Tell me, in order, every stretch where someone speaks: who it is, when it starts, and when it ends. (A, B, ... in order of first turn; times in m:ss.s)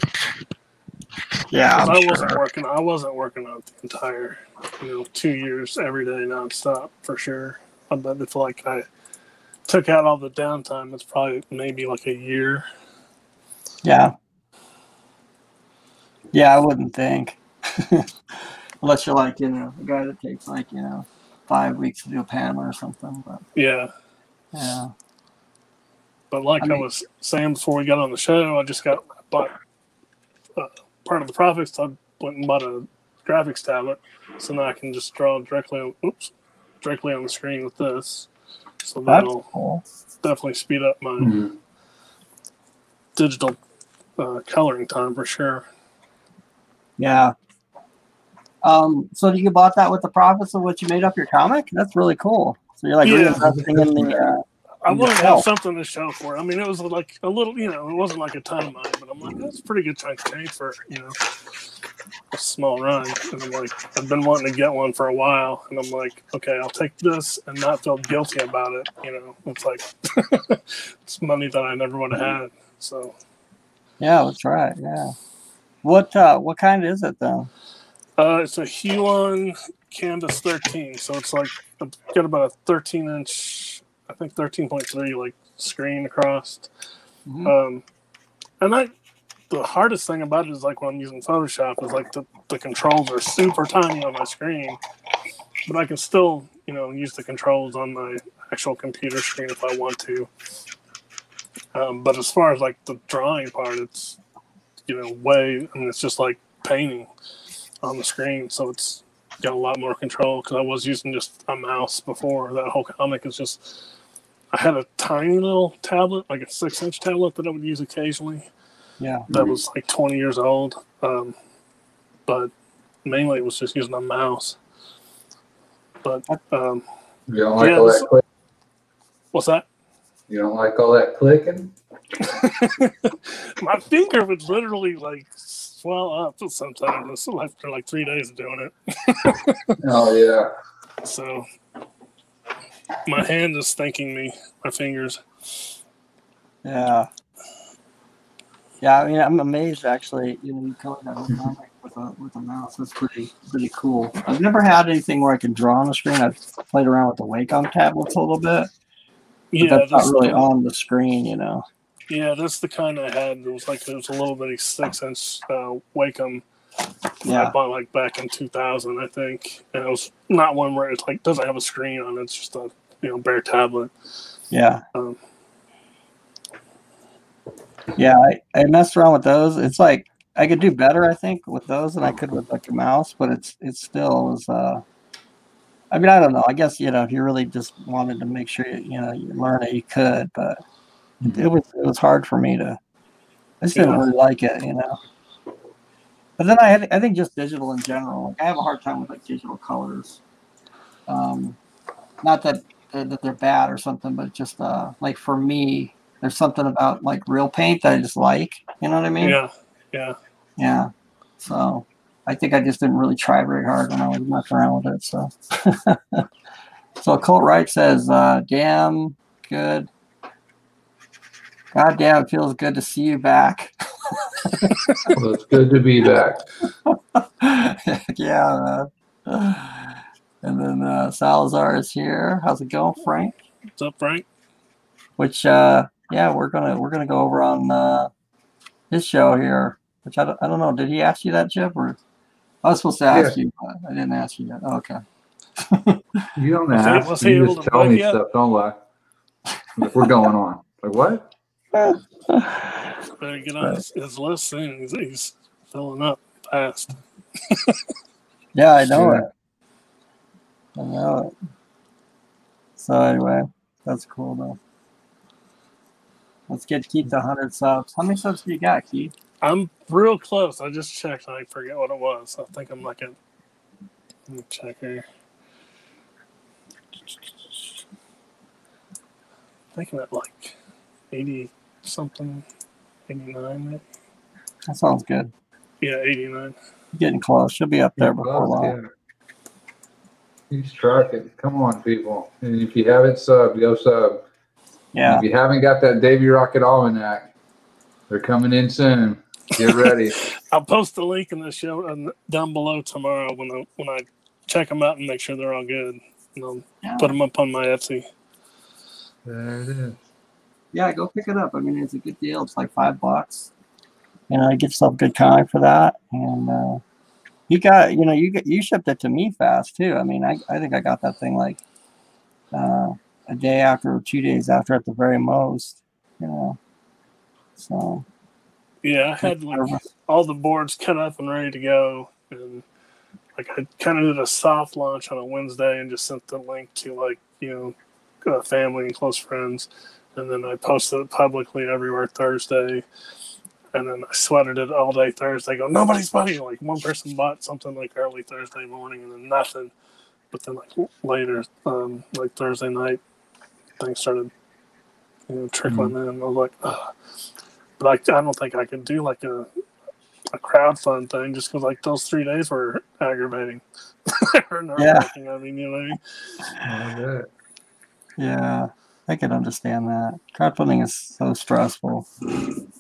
0:01.5-0:02.4 A
0:01.8-0:08.9 B
0:09.7-0:12.7 B
0:13.8-0:14.2 A
0:16.3-0:23.4 A
0:23.6-0:23.9 B
0:24.5-0:24.9 A
0:26.3-0:29.6 B
0:30.6-0:38.3 B
0:38.8-0:39.5 B
0:39.1-0:39.8 A
0:40.2-0:41.4 B
0:41.2-0:41.5 C
0:43.2-0:43.6 B
0:44.2-0:45.7 B
0:47.0-0:47.4 A
0:48.6-0:55.4 A
0:53.0-0:53.4 B
0:53.4-0:54.2 C
0:54.8-1:01.2 B
1:02.3-1:13.2 B
1:14.0-1:15.1 A
1:15.8-1:17.5 A
1:18.2-1:26.7 B
1:27.3-1:27.5 A
1:27.4-1:27.8 B
1:28.6-1:28.9 B
1:29.5-1:34.8 B
1:35.7-1:40.3 B
1:41.7-1:44.2 B
1:44.9-1:47.1 B
1:47.8-1:53.9 B
1:54.5-1:58.5 B
1:59.0-1:59.3 A
1:59.3-1:59.6 C
1:59.3-2:01.4 B
2:02.3-2:02.5 B
2:03.0-2:04.6 B
2:06.0-2:06.8 B
2:07.3-2:08.2 C
2:07.6-2:08.1 B
2:09.3-2:09.6 B
2:10.3-2:11.7 C
2:12.2-2:19.8 B
2:19.8-2:20.5 C
2:21.0-2:21.5 B
2:23.0-2:25.2 B
2:26.6-2:27.1 A
2:28.8-2:38.7 A
2:39.5-2:40.4 B
2:39.6-2:41.6 A
2:42.1-2:46.4 B
2:47.2-2:47.6 A
2:47.2-2:53.9 B
2:54.5-2:54.8 A
2:58.0-3:04.8 A
3:05.9-3:10.6 A
3:11.2-3:11.5 C
3:11.2-3:12.8 A
3:13.6-3:15.0 A
3:13.7-3:14.0 B
3:16.4-3:20.2 A
3:21.1-3:21.6 A
3:22.2-3:29.4 A
3:29.2-3:30.2 B
3:30.6-3:36.3 A
3:37.0-3:39.9 A
3:41.7-3:44.7 A
3:45.1-3:46.4 C
3:46.9-3:53.3 A
3:53.8-3:54.3 B
3:55.2-3:58.1 A
3:58.9-4:02.0 A
4:02.6-4:05.0 A
4:03.1-4:03.4 C
4:05.6-4:06.3 A
4:06.4-4:08.8 C
4:06.7-4:08.2 B
4:09.8-4:11.3 C
4:11.7-4:12.9 A
4:13.2-4:17.8 B
4:18.6-4:19.3 A
4:18.8-4:19.3 C
4:20.8-4:21.3 A
4:22.8-4:24.6 A
4:26.5-4:29.1 A
4:29.4-4:33.2 B
4:34.3-4:35.0 B
4:37.1-4:37.8 B
4:39.7-4:40.6 B
4:41.1-4:42.4 B
4:43.1-4:43.8 B
4:44.7-4:45.3 A
4:45.8-4:46.6 B
4:47.0-4:48.8 A
4:48.0-4:48.9 C
4:50.5-4:54.2 C
4:54.9-4:55.2 A
4:55.0-4:57.3 C
4:58.1-5:00.2 C
4:59.6-4:59.9 B
5:00.5-5:08.1 B
5:06.8-5:07.2 A
5:09.2-5:10.0 C
5:10.7-5:13.5 A
5:14.3-5:16.8 A
5:17.5-5:21.6 A
5:22.5-5:26.6 A
5:27.6-5:28.0 A
5:28.8-5:32.6 B
5:29.2-5:29.8 A
5:33.4-5:42.9 B
5:43.7-5:49.7 B
5:50.3-5:53.0 B
5:53.8-5:54.3 B
5:55.3-5:56.9 B
5:55.7-5:55.9 C
5:57.8-5:59.5 B
6:00.3-6:06.0 B
6:04.8-6:05.1 A
6:06.6-6:07.3 C
6:08.2-6:12.1 A